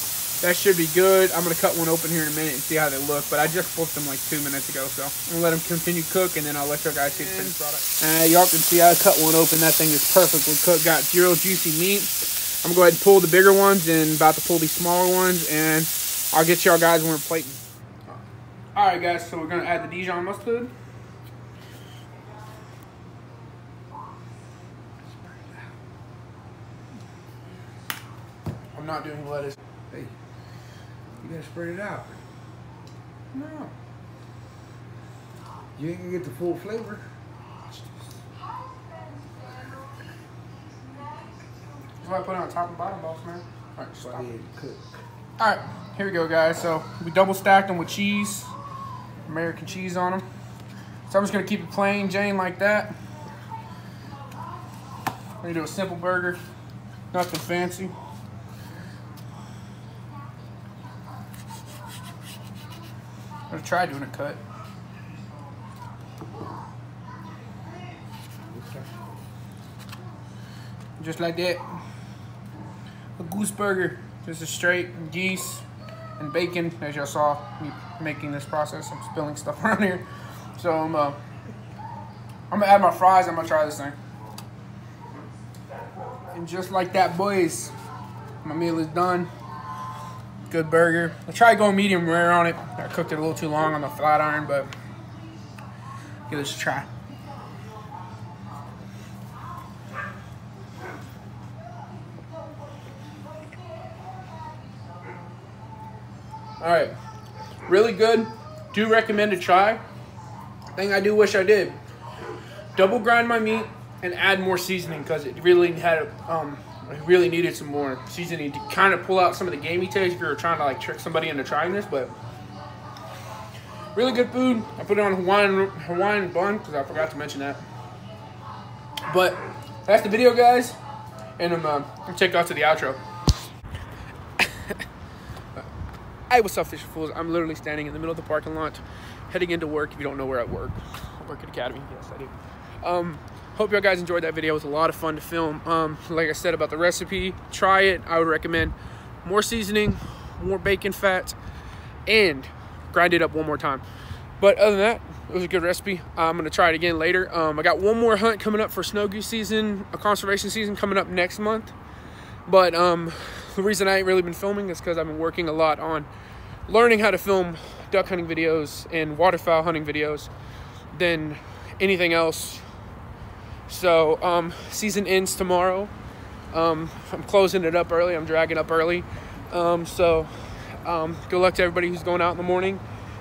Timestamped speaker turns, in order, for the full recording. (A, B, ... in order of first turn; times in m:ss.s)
0:00.4-0:18.2 A
0:18.7-0:20.7 A
0:25.1-0:25.7 B
0:28.7-0:29.6 A
0:31.2-0:32.2 B
0:33.3-0:33.7 A
0:35.8-0:37.0 B
0:37.7-0:38.0 A
0:42.0-0:44.3 A
0:44.0-0:44.9 B
0:45.4-0:48.5 A
0:49.2-0:50.2 A
0:51.1-0:52.9 A
0:55.4-0:56.4 A
0:57.1-0:57.9 A
1:03.5-1:04.4 A
1:08.5-1:08.9 B
1:11.0-1:11.8 A
1:13.2-1:15.6 A
1:16.2-1:21.2 A
1:22.5-1:24.0 A
1:26.3-1:27.7 A
1:28.4-1:29.3 A
1:30.5-1:34.7 A
1:36.3-1:36.9 A
1:46.6-1:46.9 A
1:47.7-1:49.8 A
1:50.7-1:51.8 A
1:52.7-2:02.1 A
2:03.9-2:07.6 A
2:09.1-2:10.8 A
2:11.4-2:13.0 A
2:14.4-2:14.8 A
2:16.3-2:31.4 A
2:32.0-2:33.8 A
2:34.4-2:41.7 A
2:42.4-2:46.1 A
2:46.7-2:50.3 A
2:50.9-2:52.7 A
2:53.7-2:55.9 A
2:56.5-3:02.8 A